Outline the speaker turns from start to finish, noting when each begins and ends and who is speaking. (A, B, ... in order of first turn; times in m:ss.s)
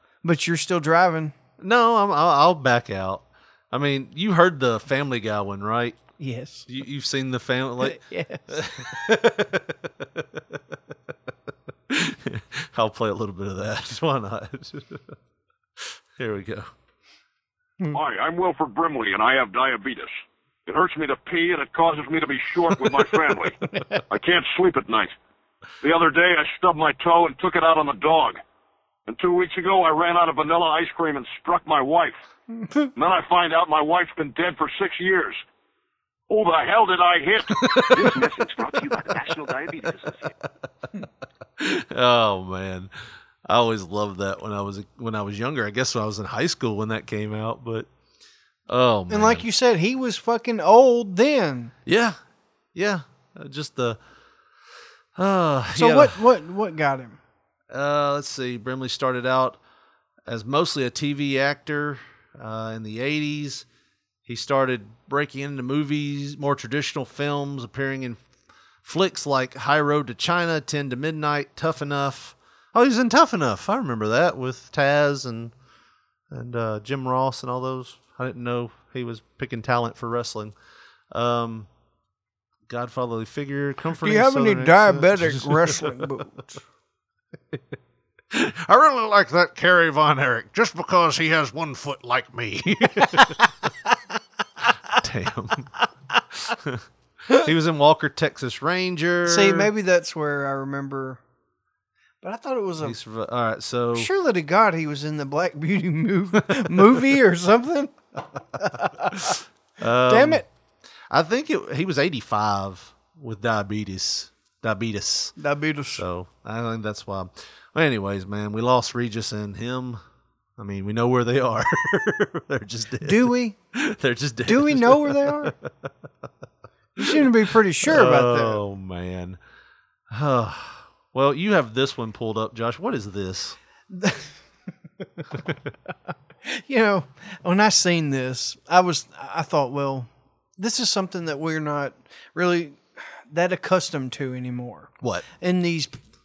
0:00.2-0:01.4 A
0:01.6-0:06.0 B
0:06.2-0:06.7 A
0:06.7-0:10.2 B
0:07.8-0:08.7 A
0:11.9-0:15.0 B
0:16.2-0:16.7 B
0:17.9-0:20.1 C
0:20.6-0:23.6 C
0:23.7-0:24.0 A
0:24.1-0:25.1 C
0:25.8-0:28.4 C
0:29.1-0:32.2 C
0:32.6-0:32.9 A
0:33.0-0:35.4 C
0:36.3-0:39.8 C
0:37.5-0:38.2 B
0:41.6-0:42.9 B
0:43.5-0:47.9 B
0:48.7-0:49.5 B
0:49.1-0:51.7 A
0:51.8-0:52.2 B
0:52.7-0:54.0 B
0:55.2-0:56.2 B
0:55.7-0:57.2 A
0:57.7-0:59.6 B
1:00.2-1:03.6 B
1:04.2-1:08.2 B
1:08.8-1:15.5 B
1:16.3-1:20.5 B
1:21.1-1:21.7 B
1:22.7-1:26.2 B
1:24.0-1:26.6 A
1:28.3-1:33.4 B
1:34.9-1:35.7 B
1:36.5-1:36.8 B
1:37.3-1:39.7 B
1:39.2-1:41.2 A
1:42.2-1:43.0 A
1:42.8-1:44.1 B
1:43.9-1:48.0 A
1:46.5-1:47.0 B
1:48.5-1:49.4 A
1:49.3-1:50.4 B
1:50.0-1:50.4 A
1:51.1-1:55.3 B
1:55.4-1:56.0 A
1:55.9-2:00.0 B
2:00.6-2:05.7 B
2:03.0-2:03.5 A
2:04.4-2:05.5 A
2:07.0-2:07.3 B
2:07.0-2:08.6 A
2:07.8-2:09.4 B
2:10.1-2:13.6 B
2:13.9-2:14.3 A
2:16.5-2:26.0 A